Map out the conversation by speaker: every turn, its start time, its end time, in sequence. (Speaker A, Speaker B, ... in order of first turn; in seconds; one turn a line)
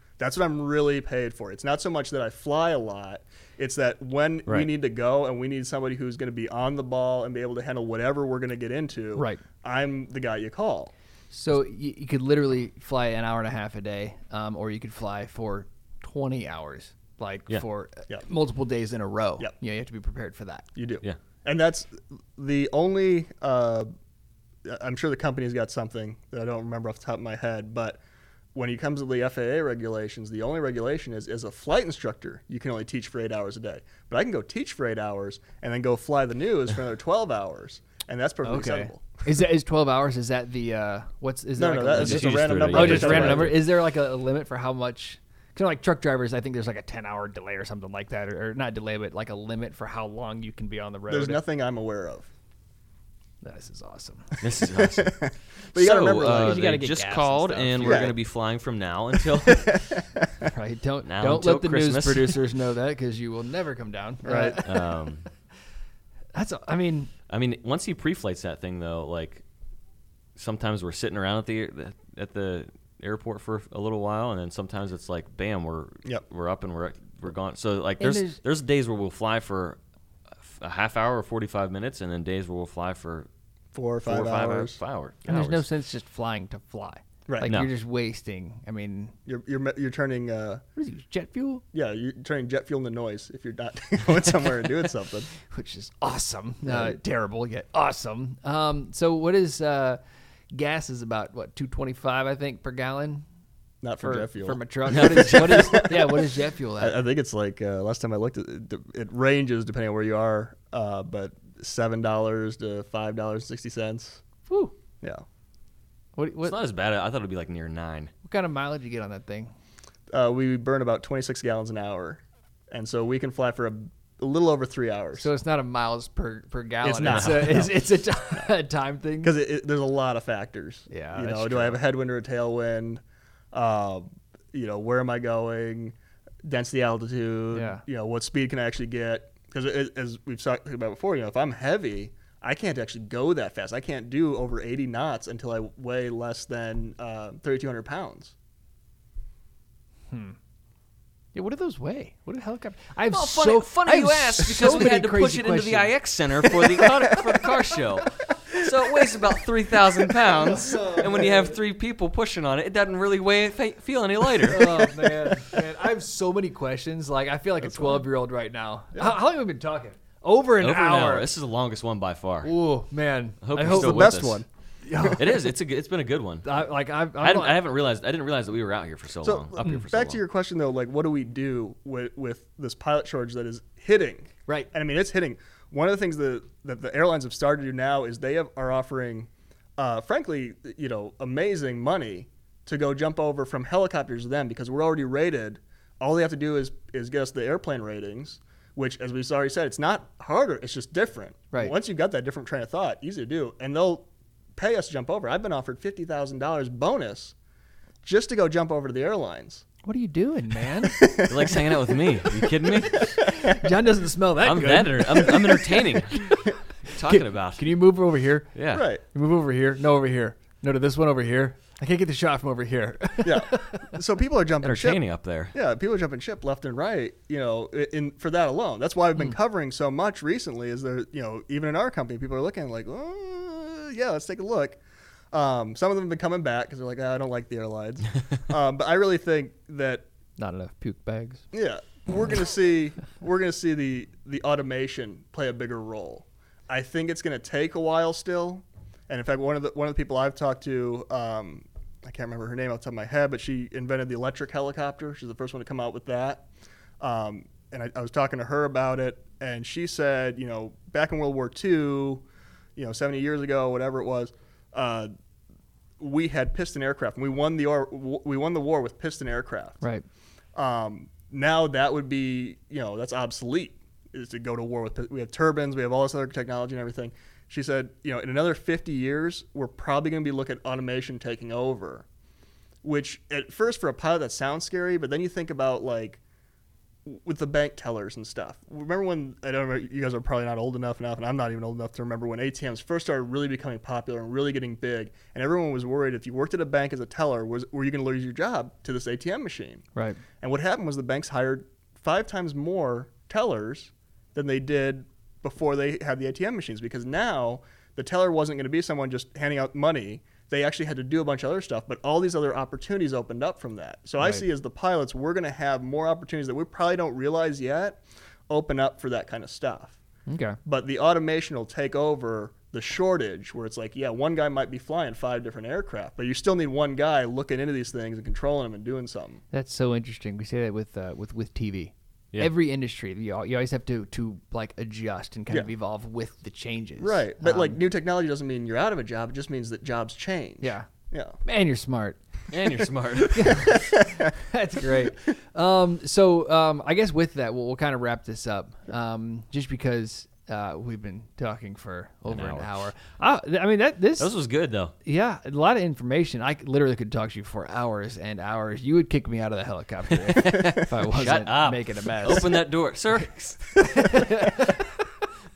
Speaker A: 0.2-10.9
Speaker B: 9.1-9.4
Speaker B: 11.3-20.6
Speaker A: 20.8-23.9
Speaker A: 24.6-28.0
Speaker A: 28.5-39.2
Speaker B: 38.4-51.4
Speaker A: 41.5-43.6
Speaker C: 41.9-43.6
Speaker A: 51.1-52.3
Speaker B: 53.4-54.4
Speaker C: 54.4-60.0
Speaker A: 54.7-56.6
Speaker B: 56.3-58.1
Speaker A: 57.8-58.1
Speaker A: 59.2-60.5
Speaker B: 60.5-64.9
Speaker C: 61.0-62.4
Speaker A: 64.2-64.6
Speaker C: 64.6-65.3
Speaker B: 66.3-67.1
Speaker C: 67.3-69.4
Speaker C: 70.3-79.8
Speaker B: 78.0-78.4
Speaker C: 80.4-83.3
Speaker A: 83.7-84.8
Speaker C: 84.0-85.6
Speaker B: 85.2-89.1
Speaker C: 87.4-87.7
Speaker A: 89.2-90.6
Speaker B: 90.8-91.6
Speaker A: 91.7-95.3
Speaker B: 95.5-100.0
Speaker A: 96.7-97.0
Speaker B: 100.5-103.2
Speaker A: 103.8-106.2
Speaker B: 104.0-107.0
Speaker C: 104.9-105.8
Speaker A: 106.8-114.2
Speaker B: 114.5-114.7
Speaker B: 116.2-116.6
Speaker C: 116.4-118.1
Speaker B: 118.2-119.5
Speaker A: 120.1-125.3
Speaker B: 125.2-129.3
Speaker A: 126.8-127.7
Speaker C: 127.0-127.7
Speaker A: 129.2-133.0
Speaker B: 130.9-131.8
Speaker A: 133.5-148.3
Speaker B: 137.5-137.8
Speaker B: 150.1-150.3
Speaker B: 151.3-159.2
Speaker C: 153.1-165.1
Speaker B: 160.0-161.6
Speaker B: 164.4-171.3
Speaker C: 170.6-172.5
Speaker B: 172.4-174.2
Speaker C: 173.4-174.4
Speaker A: 173.6-174.4
Speaker B: 174.8-175.4
Speaker C: 175.1-176.5
Speaker B: 176.4-177.6
Speaker C: 177.2-180.2
Speaker A: 179.2-207.3
Speaker A: 208.0-209.7
Speaker B: 209.8-211.0
Speaker A: 210.8-213.6
Speaker C: 211.2-213.2
Speaker B: 213.4-223.9
Speaker C: 214.4-217.7
Speaker C: 218.5-218.8
Speaker A: 218.7-219.0
Speaker A: 223.2-225.0
Speaker C: 224.6-225.5
Speaker A: 225.5-234.8
Speaker A: 235.3-240.1
Speaker B: 240.4-241.4
Speaker A: 241.5-256.5
Speaker A: 257.0-262.2
Speaker A: 262.8-265.1
Speaker A: 266.0-269.8
Speaker A: 270.5-282.1
Speaker A: 282.8-286.2
Speaker A: 287.0-299.8
Speaker B: 299.9-300.2
Speaker A: 300.4-320.0
Speaker B: 320.3-320.6
Speaker A: 320.6-329.4
Speaker B: 329.5-337.8
Speaker A: 337.0-341.4
Speaker B: 340.6-340.9
Speaker B: 341.4-342.2
Speaker C: 342.5-343.8
Speaker B: 343.3-354.3
Speaker A: 343.7-344.3
Speaker C: 352.3-352.9
Speaker C: 354.2-354.9
Speaker B: 355.0-362.6
Speaker C: 360.2-364.3
Speaker B: 363.1-365.0